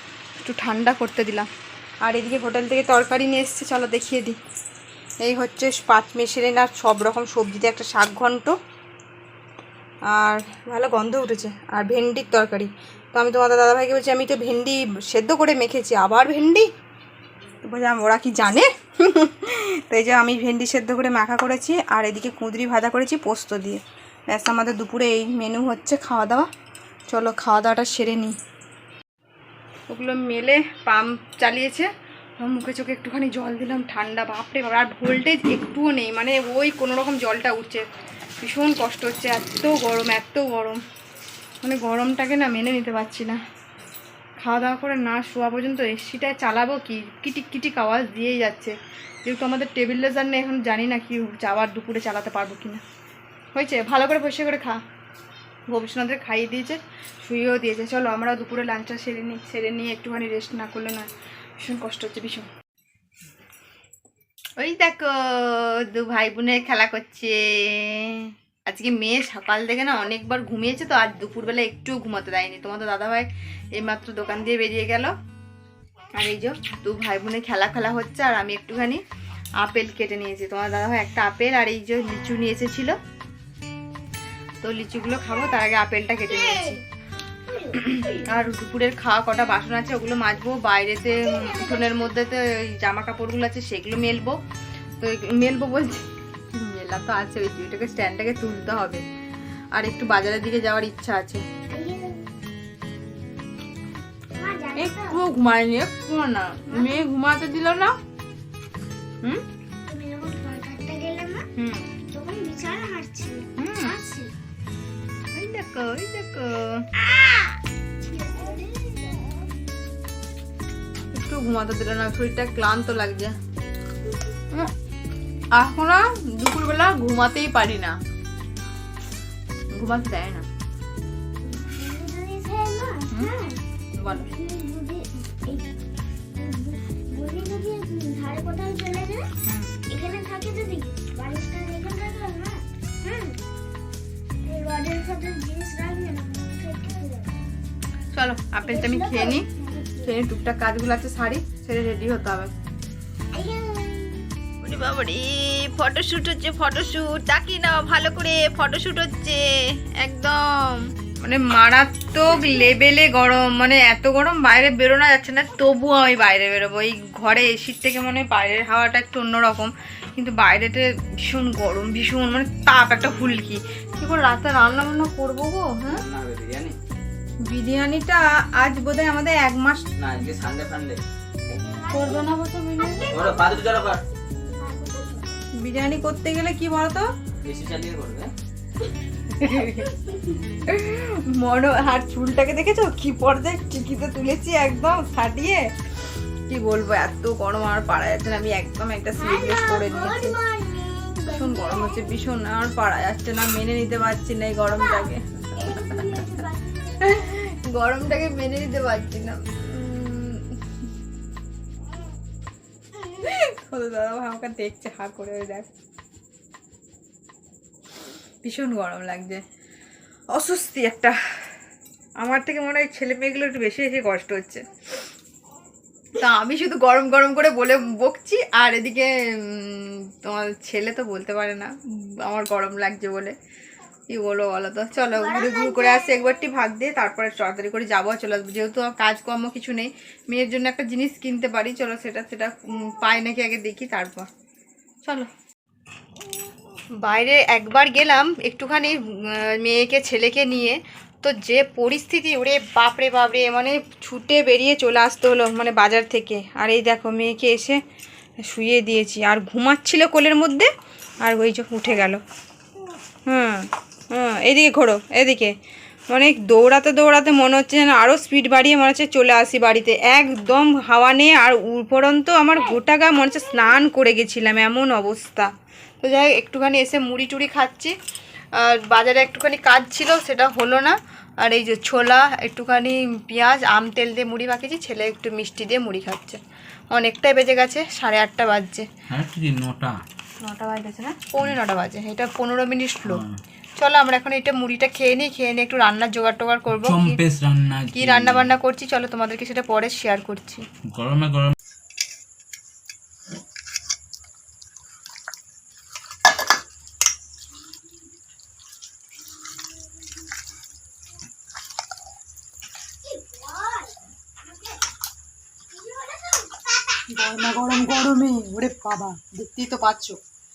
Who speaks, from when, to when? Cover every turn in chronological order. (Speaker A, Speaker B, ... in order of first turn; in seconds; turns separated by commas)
Speaker A: 0.4-1.5, Speaker A: 2.0-4.4, Speaker A: 5.2-8.6, Speaker A: 10.1-16.7, Speaker A: 17.7-26.5, Speaker A: 27.1-28.4, Speaker A: 29.9-31.9, Speaker A: 32.4-37.9, Speaker A: 38.4-40.8, Speaker A: 41.6-43.4, Speaker A: 44.4-52.8, Speaker A: 53.5-54.8, Speaker A: 55.7-61.1, Speaker A: 61.6-62.5, Speaker A: 64.6-75.1, Speaker A: 76.2-79.0, Speaker A: 79.6-83.0, Speaker A: 84.6-86.8, Speaker B: 86.3-86.8, Speaker B: 87.5-88.3, Speaker A: 87.7-94.4, Speaker B: 91.2-92.1, Speaker A: 95.0-99.0, Speaker A: 99.8-101.5, Speaker B: 101.7-102.3, Speaker B: 104.4-105.2, Speaker A: 104.8-108.0, Speaker B: 106.7-107.1, Speaker B: 109.9-111.5, Speaker A: 111.6-111.9, Speaker B: 112.1-114.3, Speaker A: 113.6-114.0, Speaker A: 115.3-116.9, Speaker B: 117.0-119.3, Speaker A: 121.2-123.4, Speaker A: 125.5-128.0, Speaker A: 129.8-130.5, Speaker B: 131.4-135.7, Speaker A: 134.0-134.3, Speaker B: 136.3-139.3, Speaker A: 139.5-139.7, Speaker B: 139.9-143.4, Speaker B: 144.4-147.3, Speaker A: 148.1-149.5, Speaker B: 148.7-150.1, Speaker A: 150.0-152.5, Speaker B: 153.3-154.3, Speaker A: 154.6-176.0, Speaker C: 176.0-176.8, Speaker A: 177.4-179.9, Speaker C: 180.0-181.0, Speaker B: 181.5-183.4, Speaker A: 181.9-183.1, Speaker C: 183.1-184.0, Speaker B: 184.4-185.3, Speaker A: 185.6-187.1, Speaker C: 187.4-188.3, Speaker A: 189.3-190.0, Speaker B: 189.5-189.9, Speaker A: 190.7-195.7, Speaker A: 196.5-200.4, Speaker B: 199.2-202.1, Speaker A: 201.3-206.4, Speaker B: 204.7-207.3, Speaker A: 207.0-210.5, Speaker A: 213.2-215.7, Speaker A: 218.4-219.4, Speaker A: 220.3-221.6, Speaker A: 222.2-224.7, Speaker A: 226.2-231.7, Speaker A: 232.2-233.3, Speaker A: 234.1-244.3, Speaker B: 235.1-236.5, Speaker A: 247.0-257.8, Speaker A: 258.4-260.7, Speaker A: 261.2-262.2, Speaker A: 263.3-265.6, Speaker A: 266.1-277.9, Speaker A: 278.6-286.4, Speaker A: 286.9-288.9, Speaker C: 289.1-290.0, Speaker A: 290.4-293.2, Speaker C: 293.1-293.4, Speaker A: 293.8-297.2, Speaker C: 296.7-298.5, Speaker A: 297.9-300.6, Speaker C: 300.9-301.5, Speaker B: 313.1-313.9, Speaker B: 315.7-317.1, Speaker A: 317.1-320.2